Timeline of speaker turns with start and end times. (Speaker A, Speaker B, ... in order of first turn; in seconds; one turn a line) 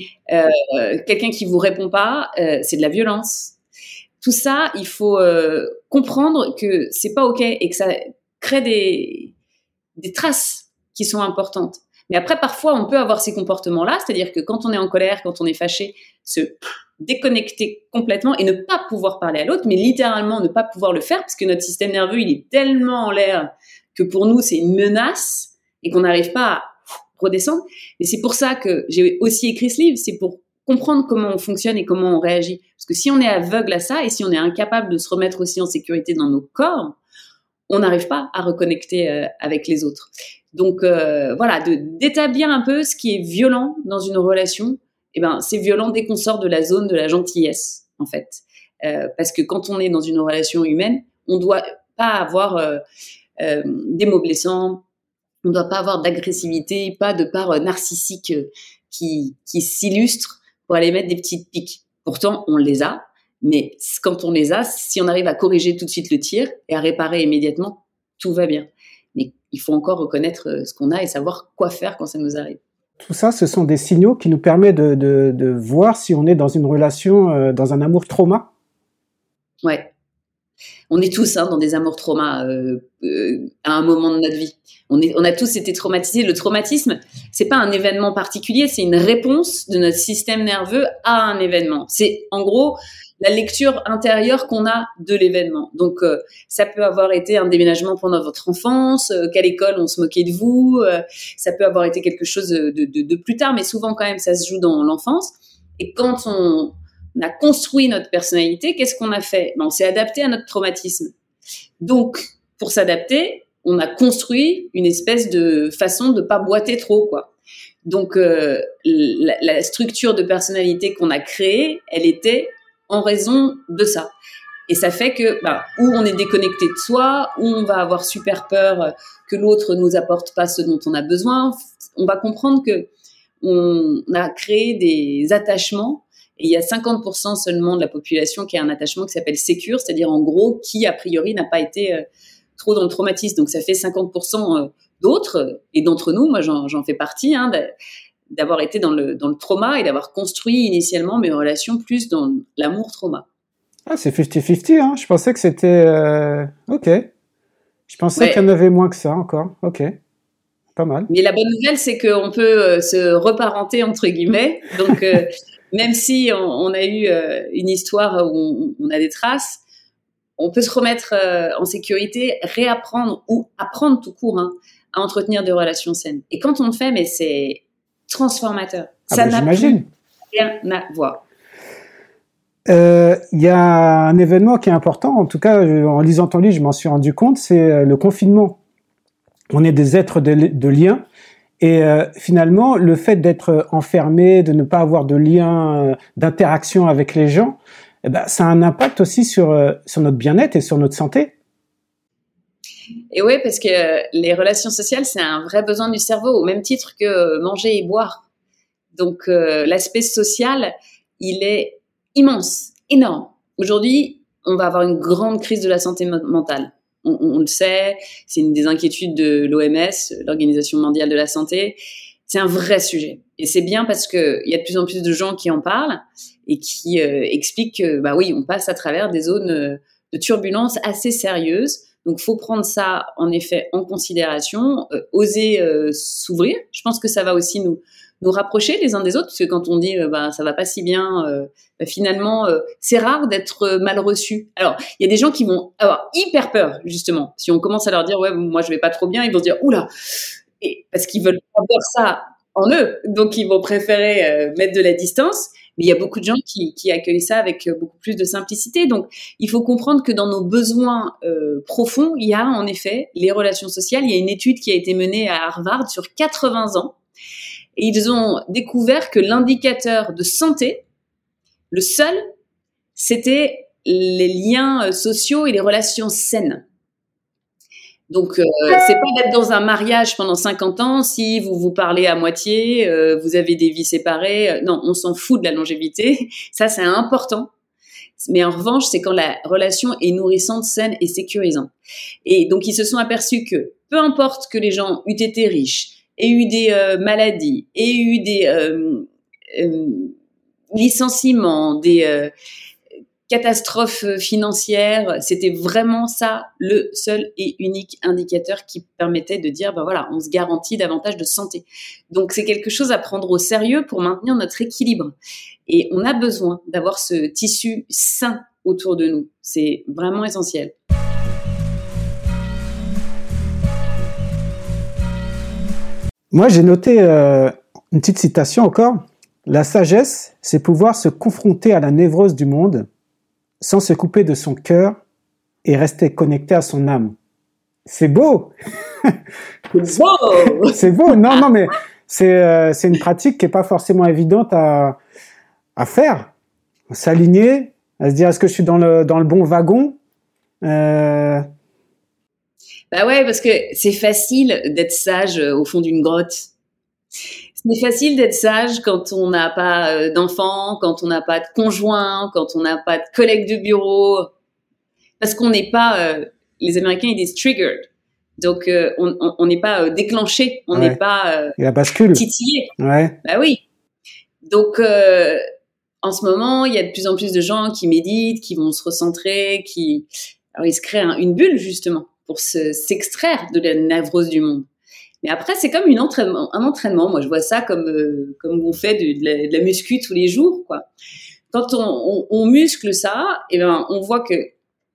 Speaker A: 0.3-3.5
Speaker A: 4.2-9.3
Speaker A: 10.0-37.0
Speaker A: 37.7-52.8
Speaker A: 53.4-54.8
Speaker A: 55.4-72.6
Speaker B: 73.0-78.5
Speaker A: 79.6-79.9
Speaker A: 80.9-111.1
Speaker A: 111.8-117.3
Speaker A: 117.8-124.1
Speaker A: 124.7-132.9
Speaker A: 133.4-142.0
Speaker A: 142.6-147.7
Speaker A: 148.3-153.2
Speaker B: 153.9-157.1
Speaker B: 157.9-159.9
Speaker A: 158.2-158.4
Speaker B: 160.8-161.1
Speaker A: 161.1-169.6
Speaker A: 170.4-179.8
Speaker B: 179.1-179.9
Speaker A: 180.3-181.2
Speaker B: 182.7-188.6
Speaker B: 189.5-191.0
Speaker B: 191.6-201.3
Speaker A: 203.1-208.2
Speaker A: 208.9-249.9
Speaker A: 250.6-267.0
Speaker A: 267.8-270.8
Speaker A: 271.7-272.2
Speaker A: 272.9-276.6
Speaker A: 278.1-287.5
Speaker A: 288.2-291.7
Speaker A: 292.2-300.1
Speaker A: 300.7-302.3
Speaker A: 303.3-315.1
Speaker A: 315.7-320.7
Speaker B: 326.3-332.9
Speaker B: 333.6-335.0
Speaker B: 335.6-337.1
Speaker B: 337.9-338.5
Speaker A: 339.7-341.4
Speaker B: 340.7-345.0
Speaker B: 345.8-346.3
Speaker B: 346.9-350.0
Speaker B: 350.6-351.4
Speaker A: 352.9-356.5
Speaker A: 357.6-364.3
Speaker A: 365.2-367.9
Speaker A: 368.4-371.6
Speaker B: 370.7-371.0
Speaker B: 371.6-372.2
Speaker A: 372.1-372.7
Speaker B: 372.8-373.2
Speaker A: 373.2-373.6
Speaker A: 374.4-375.4
Speaker A: 376.0-384.7
Speaker A: 385.2-390.9
Speaker A: 391.5-394.5